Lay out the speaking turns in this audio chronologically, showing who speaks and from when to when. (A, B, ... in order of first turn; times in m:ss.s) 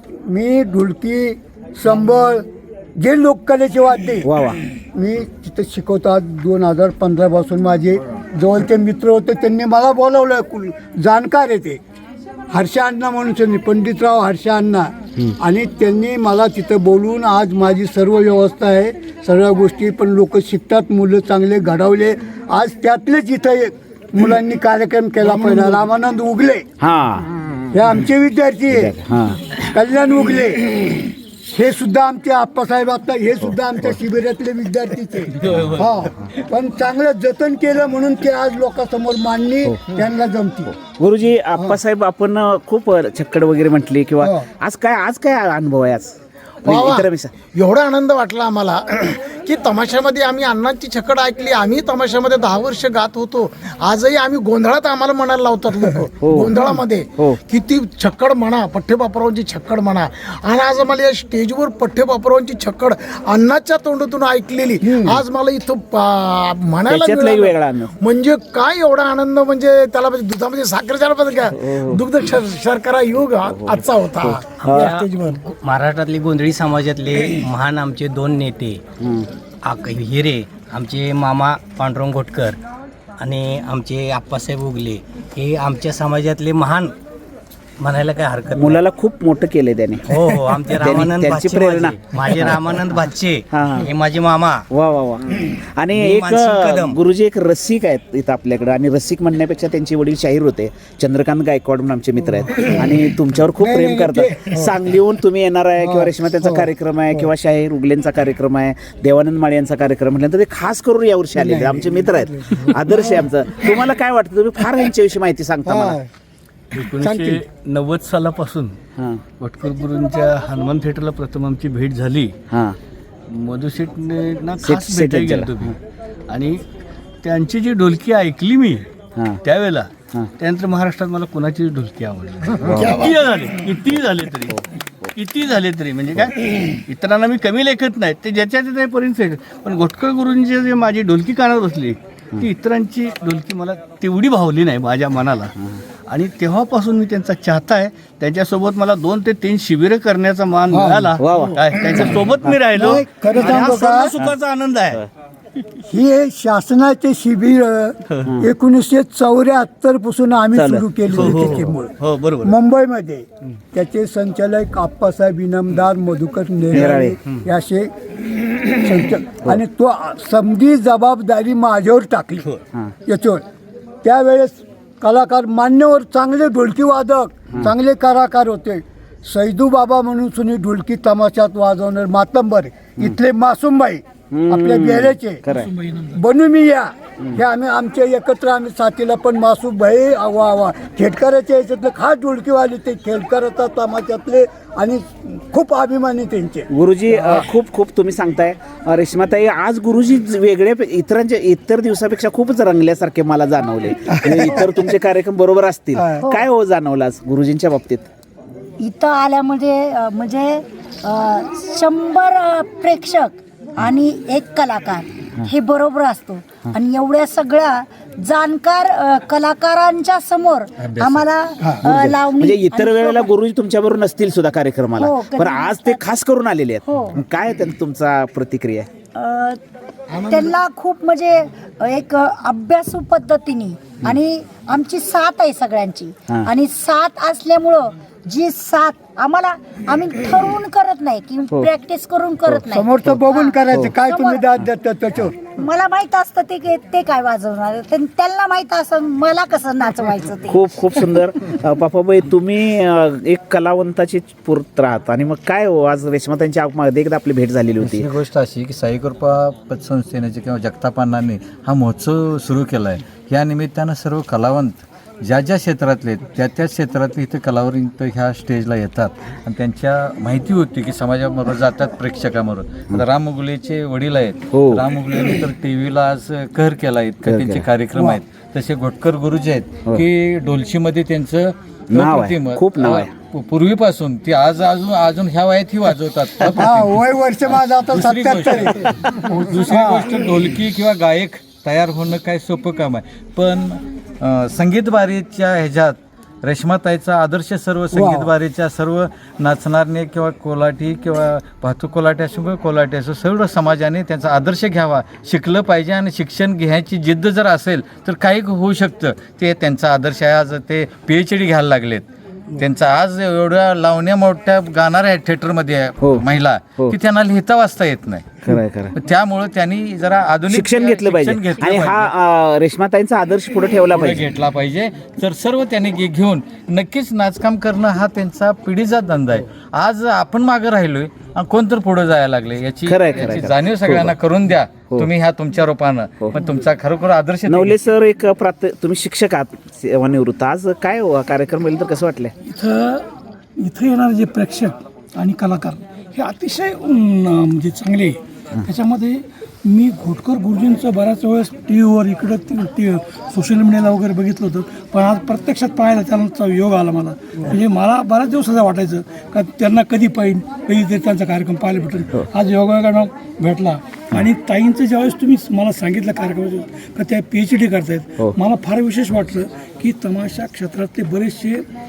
0:00.2-0:02.4 A
0:03.0-0:04.3 A
0:04.2-0:04.6 B
0:04.9-0:11.8 A
0:12.5-0:26.7 A
0:26.8-0:27.5 B
0:27.7-0:28.9 A
0:28.7-0:29.6 B
0:29.7-0:40.7 A
0:35.4-0:35.9 C
0:40.8-0:47.4 B
0:44.2-0:44.5 A
0:46.6-1:15.4 D
0:56.2-0:56.5 B
1:04.8-1:05.2 A
1:06.9-1:07.9 B
1:11.6-1:12.0 B
1:13.4-1:14.9 B
1:14.6-1:18.8 E
1:19.0-1:19.3 B
1:19.6-1:22.6 E
1:23.2-1:27.0 E
1:27.8-1:28.8 E
1:28.6-1:30.2 B
1:30.1-1:34.6 E
1:30.8-1:32.6 B
1:33.5-1:33.9 B
1:34.7-1:56.0 B
1:35.9-1:37.0 E
1:42.5-1:42.8 A
1:43.6-1:44.7 A
1:45.8-1:47.3 A
1:51.4-1:53.3 A
1:55.7-1:56.1 A
1:56.7-1:58.8 C
1:57.0-1:57.4 A
1:59.0-1:59.2 B
1:59.4-2:02.4 C
2:02.5-2:02.8 B
2:03.3-2:05.8 C
2:04.6-2:05.8 B
2:06.3-2:06.6 C
2:07.2-2:08.9 C
2:09.2-2:09.4 B
2:09.4-2:14.6 C
2:12.6-2:13.1 B
2:15.2-2:25.6 C
2:26.1-2:35.0 C
2:30.7-2:31.2 A
2:31.2-2:32.6 B
2:32.7-2:34.2 A
2:35.8-2:47.9 A
2:40.5-2:40.9 B
2:41.1-2:42.5 C
2:46.7-2:47.2 B
2:48.7-2:52.5 A
2:53.1-2:53.4 A
2:54.0-3:05.4 A
3:04.3-3:05.7 B
3:05.5-3:06.2 F
3:06.1-3:17.4 A
3:16.7-3:28.1 B
3:24.1-3:24.8 A
3:26.0-3:26.2 A
3:28.8-3:43.3 G
3:40.8-3:41.3 H
3:41.8-3:48.9 B
3:45.0-3:46.0 G
3:46.9-3:47.2 G
3:49.2-3:49.6 G
3:50.1-3:50.5 D
3:50.2-4:04.4 G
4:02.7-4:05.5 A
4:05.6-4:10.6 G
4:10.5-4:18.1 B
4:17.8-5:22.1 H
4:34.5-4:34.8 B
4:37.2-4:37.6 B
4:41.9-4:43.1 B
4:46.5-4:50.2 A
4:57.9-4:58.3 A
5:16.0-5:16.3 B
5:18.5-5:18.9 B
5:20.5-5:24.2 B
5:23.9-5:37.8 H
5:32.9-5:34.2 B
5:37.5-5:42.3 B
5:42.4-5:43.1 F
5:43.6-6:11.6 F